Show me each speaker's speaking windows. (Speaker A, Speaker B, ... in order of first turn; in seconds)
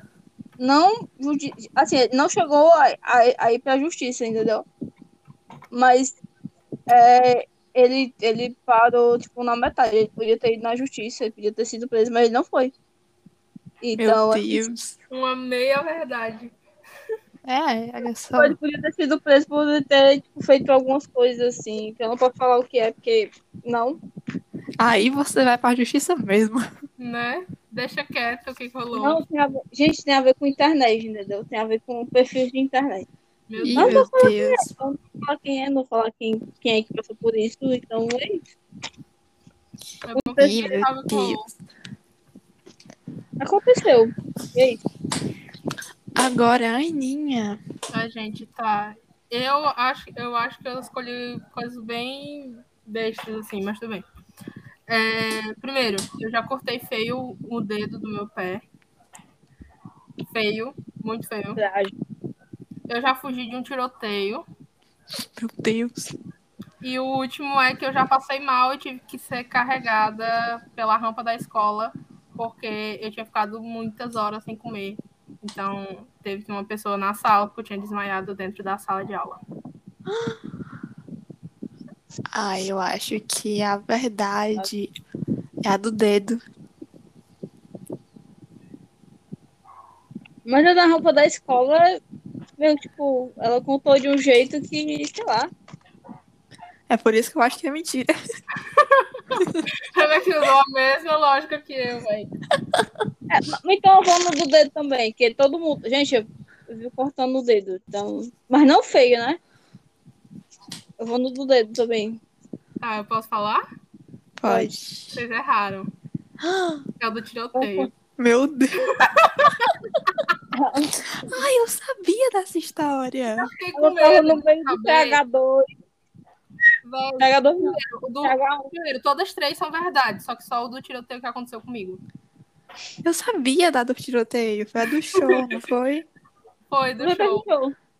Speaker A: 0.6-4.7, 5.7-6.2, 6.9-12.7, 13.8-14.6, 18.4-24.0, 28.9-33.1, 33.7-38.4, 40.2-40.6, 43.4-44.8, 61.6-61.9, 90.5-92.0, 92.6-95.5, 103.3-109.4, 111.0-112.2, 114.4-114.7, 117.5-117.9, 120.5-121.3, 123.8-125.7, 127.2-128.7, 137.0-137.7
Speaker B: 14.0-15.0, 17.4-18.6, 24.8-26.7, 33.6-34.7, 40.4-41.4, 46.1-47.6, 65.4-66.1, 80.1-80.4, 82.3-84.9, 85.6-86.4, 96.9-98.1, 114.4-115.2, 116.4-116.8, 118.2-119.1, 121.2-123.5, 133.0-136.1
Speaker C: 15.1-16.5, 27.0-29.2, 33.5-34.0, 40.0-41.5, 47.9-54.0, 54.9-58.6, 60.3-61.6, 62.9-64.4, 66.8-79.4, 98.7-99.4, 99.9-102.3, 112.8-113.6, 115.1-115.9, 117.0-117.9, 118.9-119.7, 123.4-125.2, 126.8-132.0, 136.7-137.5